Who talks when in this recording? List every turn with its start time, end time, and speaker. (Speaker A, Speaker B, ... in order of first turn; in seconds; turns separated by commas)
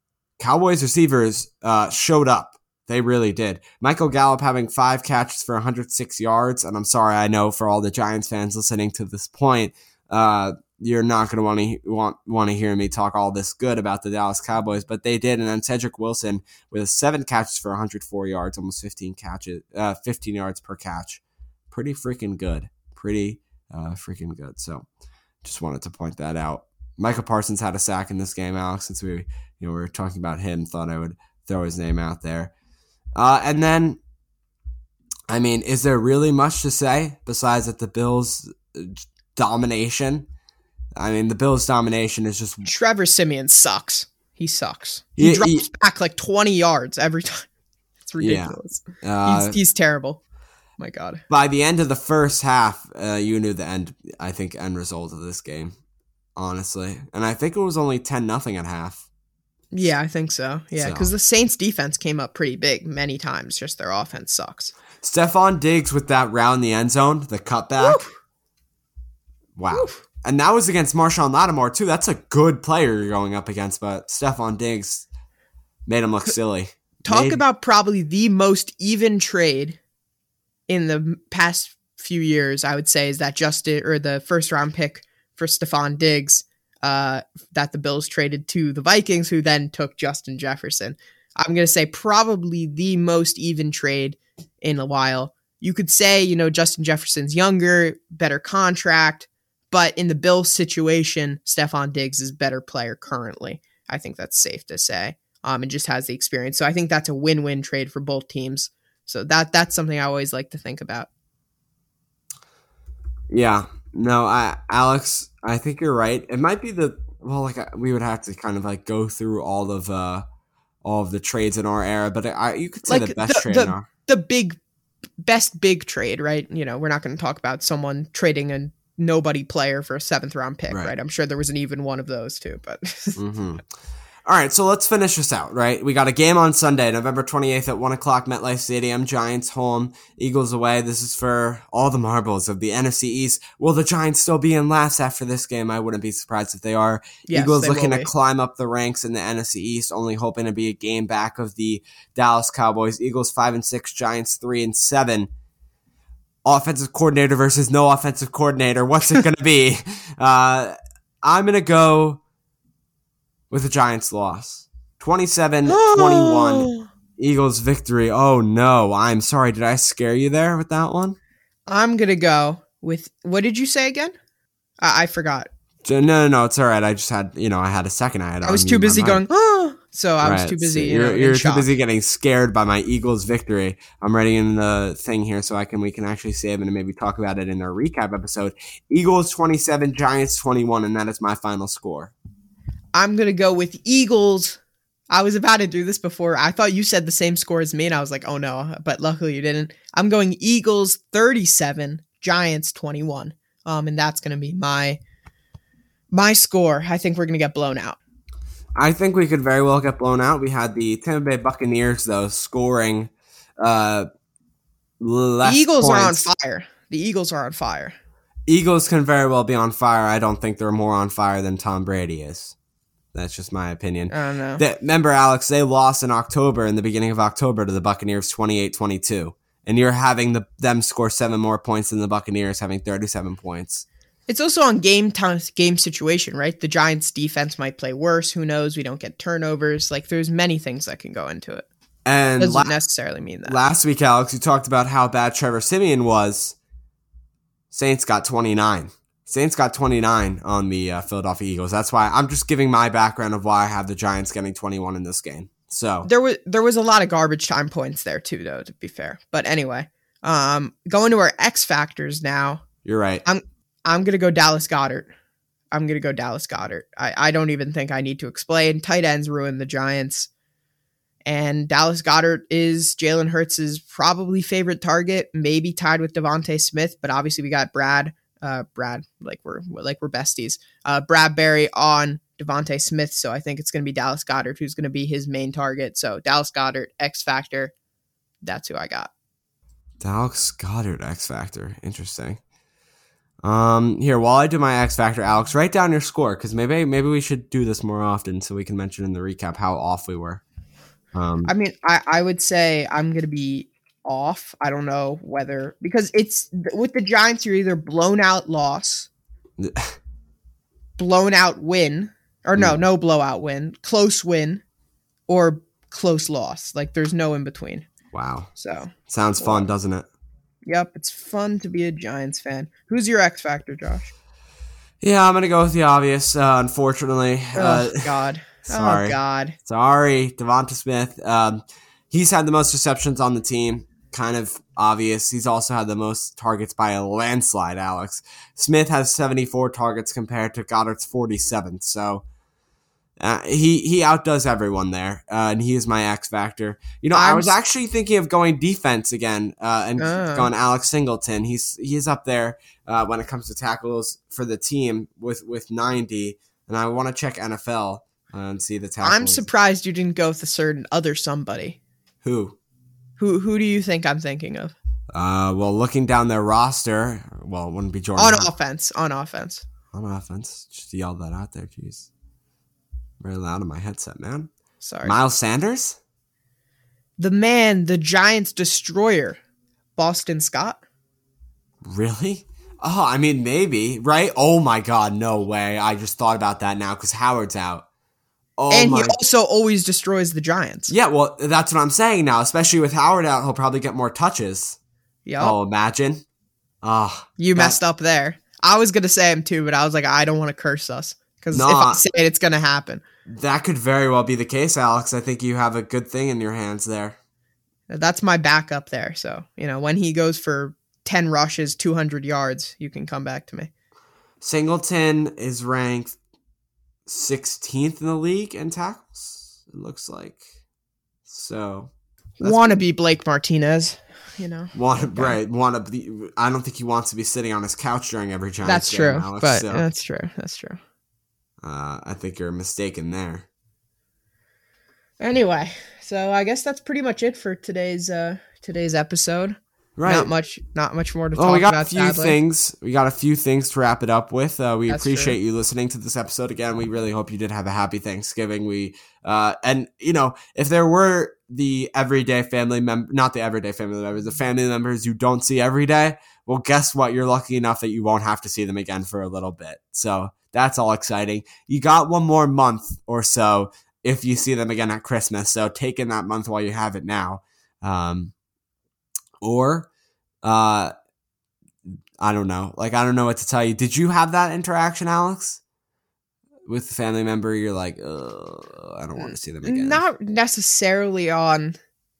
Speaker A: 0.4-24.9, Speaker A: 25.4-32.5, Speaker A: 33.1-34.0, Speaker A: 35.3-40.3, Speaker A: 41.0-42.7, Speaker B: 42.6-47.5, Speaker A: 45.2-45.6, Speaker B: 48.0-50.2, Speaker A: 48.2-49.6, Speaker B: 50.8-51.2, Speaker A: 51.3-55.7, Speaker A: 56.4-59.0, Speaker B: 59.7-64.7, Speaker A: 60.8-61.1, Speaker A: 65.0-68.0, Speaker B: 67.8-68.1, Speaker A: 69.5-75.1, Speaker B: 69.7-70.0, Speaker A: 75.8-77.4, Speaker B: 77.0-79.8, Speaker B: 80.7-111.1, Speaker A: 113.3-120.2, Speaker A: 120.8-123.9, Speaker B: 122.9-124.6, Speaker B: 125.2-133.2, Speaker A: 133.2-133.6, Speaker A: 134.2-155.3, Speaker B: 147.3-148.1, Speaker A: 156.4-162.2, Speaker A: 163.5-171.2, Speaker B: 165.7-166.9, Speaker B: 171.7-174.1, Speaker B: 174.8-175.5, Speaker A: 175.8-179.2, Speaker B: 178.4-181.7, Speaker A: 180.2-192.1, Speaker B: 192.9-194.6, Speaker B: 195.1-205.0, Speaker B: 206.1-208.0, Speaker A: 208.8-214.1, Speaker A: 215.0-216.3, Speaker B: 215.4-217.9, Speaker A: 218.5-222.5, Speaker A: 223.1-233.8, Speaker B: 224.1-224.6, Speaker B: 234.3-241.7, Speaker A: 242.1-242.7, Speaker B: 242.4-243.6, Speaker A: 243.4-246.6, Speaker A: 247.7-256.1, Speaker B: 256.0-262.6, Speaker A: 262.8-263.2, Speaker B: 263.2-265.1, Speaker B: 265.7-270.3, Speaker B: 271.2-287.7, Speaker B: 288.4-289.1, Speaker A: 290.0-292.4, Speaker A: 293.4-300.4, Speaker A: 301.1-301.5, Speaker B: 301.4-309.1, Speaker A: 309.6-310.0, Speaker B: 311.0-314.6, Speaker B: 315.3-317.9, Speaker A: 318.1-318.5, Speaker B: 318.6-319.7, Speaker A: 319.1-320.1, Speaker B: 320.6-324.1, Speaker A: 325.0-342.2, Speaker B: 327.5-329.6, Speaker A: 343.2-359.4, Speaker B: 347.1-347.5, Speaker B: 350.0-350.5, Speaker B: 359.0-361.8, Speaker A: 362.2-362.6, Speaker B: 363.2-364.8, Speaker A: 365.1-368.5, Speaker B: 368.2-369.6, Speaker A: 369.9-372.1, Speaker A: 373.2-374.5, Speaker B: 374.8-375.1, Speaker A: 375.0-376.0, Speaker B: 377.2-379.4, Speaker B: 379.9-380.8, Speaker A: 381.8-387.9, Speaker A: 388.6-389.2, Speaker B: 388.7-390.9, Speaker A: 390.9-394.8, Speaker B: 395.2-395.6, Speaker A: 395.4-396.2, Speaker A: 396.8-397.8, Speaker B: 397.4-403.0, Speaker A: 401.5-402.0, Speaker A: 403.2-407.2, Speaker B: 407.9-413.7, Speaker A: 414.4-416.2, Speaker A: 417.1-420.4, Speaker A: 421.2-422.8, Speaker B: 422.4-425.4, Speaker A: 424.7-429.8, Speaker B: 428.6-430.8, Speaker A: 431.6-433.4, Speaker B: 435.2-442.4, Speaker A: 440.0-440.3, Speaker A: 441.4-468.3, Speaker B: 444.9-445.4, Speaker A: 469.4-469.9, Speaker A: 470.4-470.9, Speaker A: 471.9-475.6, Speaker A: 476.6-480.0, Speaker B: 479.2-481.8